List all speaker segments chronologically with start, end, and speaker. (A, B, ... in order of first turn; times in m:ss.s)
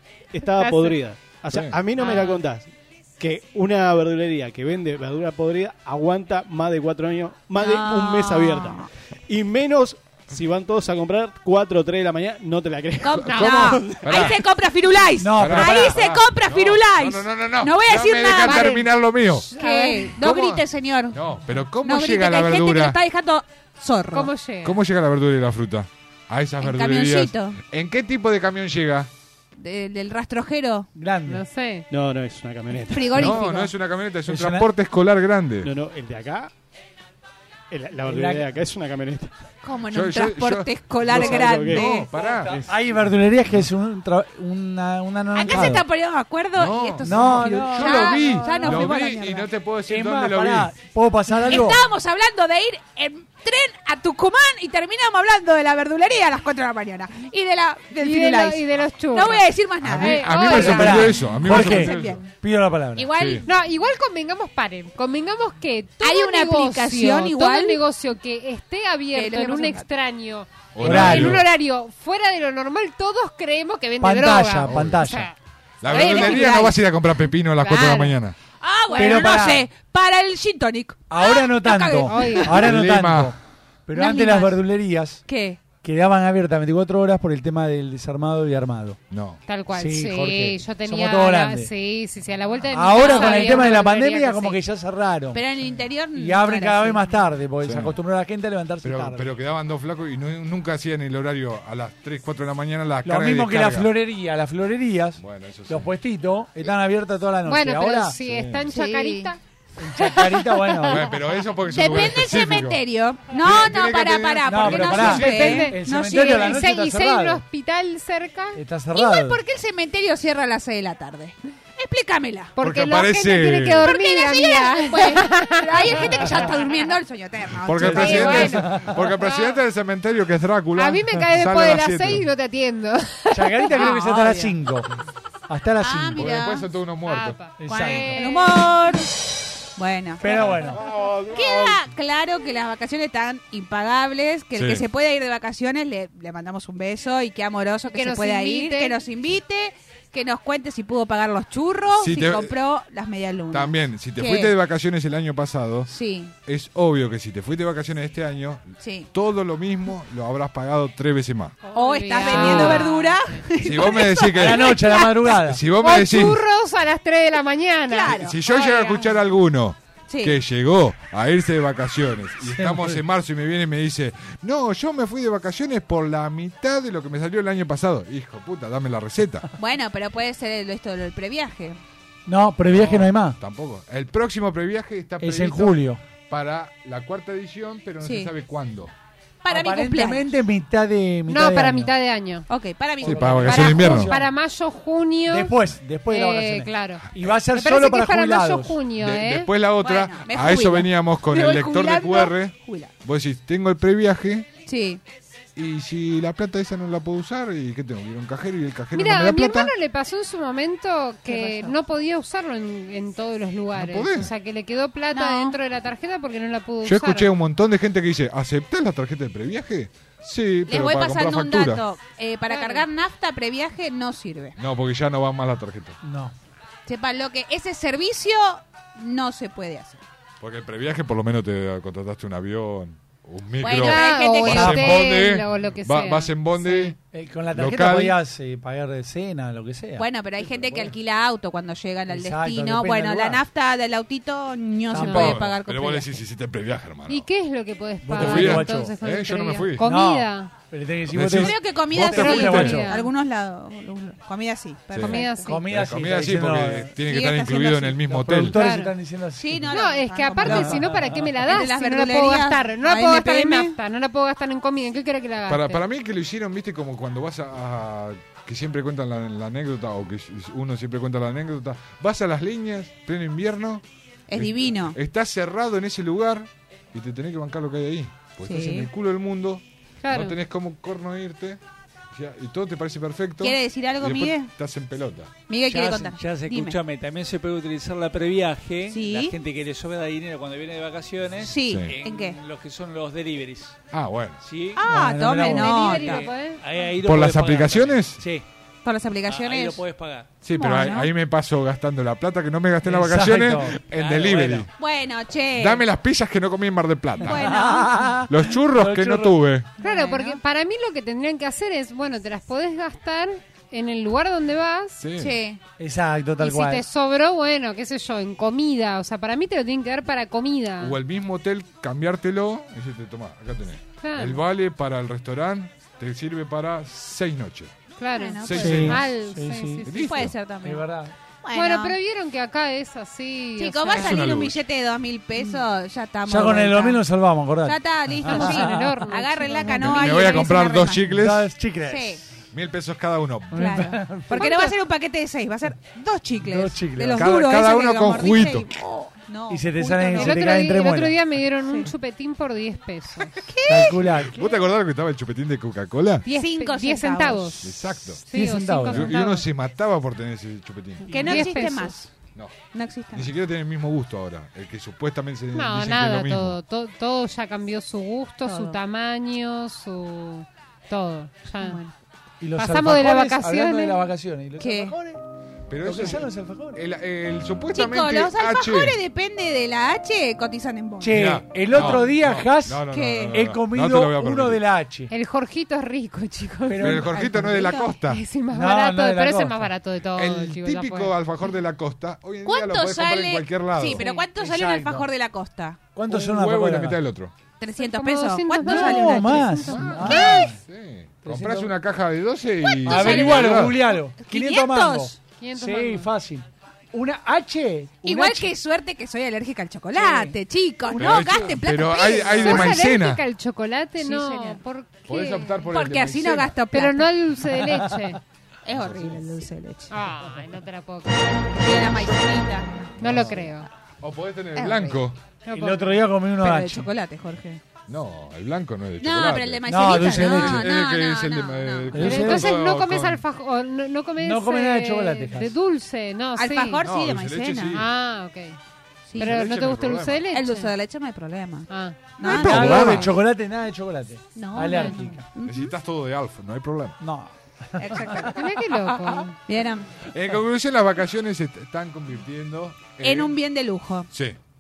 0:00.3-0:14.0 A
0:00.6-0:01.0 B
0:01.5-0:01.8 C
0:02.0-0:02.4 B
0:07.6-0:08.9 D
0:13.0-0:18.8 D
0:13.3-0:13.8 B
0:13.3-0:14.4 C
0:15.2-0:16.0 E
0:15.4-0:19.5 C
0:18.4-0:18.8 B
0:19.4-0:20.1 B
0:19.5-0:21.2 D
0:20.1-0:23.0 C
0:21.8-0:24.3 D
0:24.1-0:24.8 B
0:24.6-0:29.1 C
0:26.6-0:27.6 D
0:29.6-0:30.9 D
0:31.0-0:31.4 E
0:31.3-0:31.9 B
0:31.9-0:33.4 A
0:32.9-0:33.7 D
0:33.1-0:35.7 C
0:34.3-0:34.7 E
0:35.6-0:36.5 A
0:37.7-0:39.3 A
0:38.0-0:38.5 E
0:39.6-0:42.1 D
0:39.9-0:42.6 C
0:41.0-0:42.8 A
0:42.2-0:45.8 E
0:45.3-0:49.5 D
0:46.6-0:50.7 C
0:47.0-0:48.9 E
0:49.9-0:51.8 E
0:51.5-1:02.3 D
0:58.0-0:59.5 B
0:59.8-1:02.2 C
1:00.0-1:01.0 B
1:00.5-1:03.1 E
1:03.0-1:03.5 D
1:03.1-1:03.4 C
1:03.4-1:15.4 B
1:06.0-1:07.8 D
1:09.1-1:09.9 D
1:10.7-1:11.5 C
1:10.8-1:11.4 E
1:14.0-1:15.3 E
1:14.7-1:15.1 C
1:15.8-1:18.4 C
1:15.9-1:16.7 B
1:15.9-1:16.8 D
1:17.6-1:18.1 B
1:18.6-1:22.6 D
1:19.0-1:19.7 E
1:21.1-1:23.4 E
1:22.1-1:22.6 B
1:22.5-1:23.3 C
1:23.9-1:25.2 E
1:24.0-1:24.6 D
1:25.3-1:25.6 D
1:25.8-1:29.0 E
1:29.1-1:29.4 C
1:29.5-1:34.6 B
1:29.7-1:31.7 E
1:32.7-1:35.4 E
1:33.1-1:33.6 D
1:35.3-1:37.2 D
1:36.2-1:39.3 E
1:37.6-1:38.0 C
1:38.8-1:43.9 C
1:43.0-1:48.2 E
1:45.2-1:45.9 C
1:47.5-1:49.4 B
1:48.2-1:48.7 C
1:48.7-1:49.3 D
1:49.8-1:51.1 E
1:50.0-1:51.0 B
1:50.9-1:55.3 C
1:51.7-1:56.6 D
1:54.5-1:57.4 E
1:55.2-1:58.6 B
1:58.6-1:59.4 E
1:58.9-2:02.5 D
2:02.6-2:06.9 B
2:02.6-2:03.9 C
2:03.8-2:08.6 D
2:07.6-2:12.3 C
2:07.8-2:08.9 E
2:08.0-2:09.6 B
2:10.8-2:14.0 B
2:13.3-2:14.9 E
2:13.8-2:14.6 D
2:15.5-2:16.3 E
2:15.8-2:16.7 D
2:16.2-2:17.4 C
2:17.0-2:18.7 B
2:17.6-2:18.2 E
2:17.7-2:19.1 D
2:19.8-2:20.8 D
2:20.2-2:20.8 E
2:20.8-2:21.8 C
2:21.3-2:34.5 D
2:24.6-2:24.8 C
2:27.9-2:29.0 B
2:32.0-2:32.6 C
2:33.5-2:35.9 C
2:35.9-2:36.3 D
2:36.5-2:41.6 C
2:38.8-2:39.1 D
2:41.6-2:43.5 B
2:41.7-2:45.2 D
2:42.2-2:42.8 E
2:43.6-2:44.7 C
2:44.3-2:45.6 E
2:45.3-2:46.4 C
2:45.7-2:49.1 B
2:47.9-2:48.4 D
2:48.1-2:59.5 C
2:50.1-2:50.4 D
2:52.4-2:53.0 E
2:59.6-3:01.8 D
3:02.3-3:03.4 E
3:02.7-3:08.9 C
3:05.2-3:06.0 E
3:08.0-3:08.3 D
3:09.4-3:10.3 D
3:09.5-3:11.9 E
3:11.3-3:12.5 B
3:12.5-3:14.0 D
3:13.0-3:14.1 C
3:13.0-3:14.3 E
3:13.5-3:15.6 B
3:15.3-3:18.8 E
3:16.1-3:19.5 B
3:19.0-3:24.5 C
3:19.8-3:22.9 D
3:24.7-3:25.0 D
3:25.6-3:29.7 C
3:28.9-3:37.3 B
3:31.3-3:31.8 D
3:33.7-3:34.3 C
3:35.1-3:35.6 D
3:36.8-3:41.8 C
3:40.7-3:44.6 D
3:42.5-3:42.9 B
3:44.6-3:46.0 C
3:46.0-3:46.3 E
3:46.9-3:50.0 D
3:50.4-3:57.0 C
3:53.6-3:55.0 D
3:53.8-3:56.5 B
3:54.5-3:54.9 E
3:57.0-4:00.9 E
3:57.5-3:58.2 C
4:00.0-4:06.2 D
4:02.1-4:03.4 E
4:04.9-4:05.5 E
4:04.9-4:07.3 C
4:07.1-4:10.6 B
4:08.0-4:08.9 E
4:08.1-4:09.8 C
4:09.8-4:12.9 E
4:11.1-4:12.8 C
4:11.4-4:15.5 D
4:12.2-4:13.1 B
4:14.9-4:18.5 C
4:15.0-4:15.6 B
4:15.4-4:16.9 E
4:17.0-4:18.2 D
4:18.1-4:19.7 E
4:18.5-4:19.0 B
4:19.4-4:23.8 D
4:19.7-4:25.8 B
4:20.4-4:21.2 E
4:25.5-4:41.6 C
4:34.3-4:35.0 D
4:38.4-4:38.9 D
4:40.0-4:40.4 B
4:42.1-4:45.3 C
4:43.4-4:44.5 D
4:45.5-4:46.8 D
4:45.7-4:46.8 E
4:46.8-4:53.7 F
4:48.9-4:49.4 D
4:51.4-4:52.4 D
4:51.6-4:52.0 C
4:53.9-4:54.4 C
4:54.4-4:54.8 F
4:54.8-4:56.3 D
4:54.8-4:56.2 E
4:55.5-4:56.6 B
4:56.2-4:58.4 F
4:57.0-4:58.2 C
4:58.8-4:59.8 D
4:59.3-5:00.3 F
5:00.4-5:04.7 C
5:00.6-5:01.1 D
5:02.8-5:03.8 E
5:03.9-5:04.6 F
5:04.8-5:05.8 D
5:05.6-5:07.7 C
5:07.2-5:08.2 D
5:07.2-5:09.4 E
5:08.3-5:09.7 C
5:09.8-5:10.4 D
5:09.8-5:15.0 B
5:15.0-5:15.4 C
5:15.2-5:15.6 D
5:15.8-5:16.8 E
5:16.4-5:21.0 B
5:20.8-5:27.7 C
5:24.0-5:24.4 B
5:28.0-5:29.9 B
5:28.2-5:29.0 D
5:28.4-5:29.1 C
5:28.5-5:29.8 E
5:29.8-5:30.4 C
5:29.9-5:30.9 D
5:30.6-5:31.1 E
5:31.4-5:32.0 D
5:31.5-5:34.4 B
5:33.6-5:37.0 D
5:33.9-5:34.6 C
5:36.3-5:38.9 E
5:37.6-5:41.1 D
5:38.3-5:40.4 B
5:39.6-5:41.5 C
5:41.1-5:42.2 E
5:41.8-5:42.2 D
5:42.5-5:43.9 C
5:43.5-5:44.7 E
5:43.5-5:50.6 D
5:46.4-5:47.3 E
5:47.2-5:48.7 C
5:49.5-5:51.2 E
5:50.1-5:53.3 B
5:51.6-5:51.9 D
5:53.4-5:54.0 D
5:53.7-5:54.4 E
5:54.0-5:56.3 C
5:56.2-5:59.5 B
5:56.3-5:57.5 D
5:57.6-5:58.2 C
5:58.3-5:59.2 E
5:58.9-6:01.6 C
6:01.1-6:02.0 B
6:01.1-6:02.1 D
6:02.7-6:03.3 D
6:03.1-6:06.6 C
6:05.5-6:11.8 B
6:08.4-6:08.8 D
6:11.6-6:11.9 D
6:12.4-6:15.2 E
6:12.6-6:14.0 B
6:14.6-6:14.9 D
6:15.7-6:19.0 C
6:15.8-6:16.8 E
6:17.7-6:22.2 D
6:21.0-6:25.1 E
6:21.1-6:24.6 C
6:22.9-6:23.5 D
6:25.1-6:27.1 B
6:26.7-6:27.2 E
6:26.8-6:28.2 C
6:26.9-6:28.0 D
6:28.0-6:31.2 B
6:28.5-6:29.7 E
6:30.1-6:34.0 C
6:32.4-6:35.8 D
6:34.0-6:34.3 B
6:34.4-6:35.1 E
6:36.0-6:37.0 E
6:36.1-6:37.3 C
6:37.6-6:40.5 D
6:37.8-6:40.4 B
6:38.7-6:40.5 E
6:39.7-6:43.8 C
6:41.2-6:41.7 E
6:42.6-6:45.2 D
6:42.9-6:48.5 E
6:45.2-6:46.1 B
6:48.0-6:52.8 D
6:49.9-6:50.3 E
6:50.9-6:53.2 C
6:52.4-6:55.6 B
6:54.0-6:54.6 D
6:55.1-6:56.6 C
6:55.7-6:57.1 D
6:56.7-6:58.2 B
6:58.6-7:00.0 D
6:58.7-6:59.2 C
6:59.9-7:01.7 B
7:01.6-7:03.5 D
7:03.0-7:03.4 C
7:03.0-7:03.7 B
7:04.0-7:05.2 C
7:04.6-7:05.0 D
7:05.5-7:06.0 B
7:05.5-7:06.9 E
7:06.4-7:07.6 D
7:07.9-7:13.2 C
7:09.0-7:12.3 D
7:09.7-7:10.8 E
7:11.9-7:12.5 E
7:12.0-7:16.8 B
7:14.2-7:15.5 E
7:16.4-7:17.8 D
7:16.8-7:17.9 C
7:17.7-7:18.6 B
7:19.1-7:19.4 D
7:19.2-7:20.2 C
7:19.2-7:20.7 B
7:20.3-7:23.1 D
7:21.7-7:22.1 B
7:22.2-7:23.1 C
7:22.2-7:25.2 E
7:24.4-7:25.8 D
7:24.7-7:25.0 B
7:25.4-7:27.0 C
7:27.0-7:28.4 E
7:27.8-7:28.4 D
7:28.4-7:29.4 B
7:29.5-7:29.9 D
7:30.1-7:33.4 C
7:33.0-7:34.1 D
7:34.1-7:34.4 C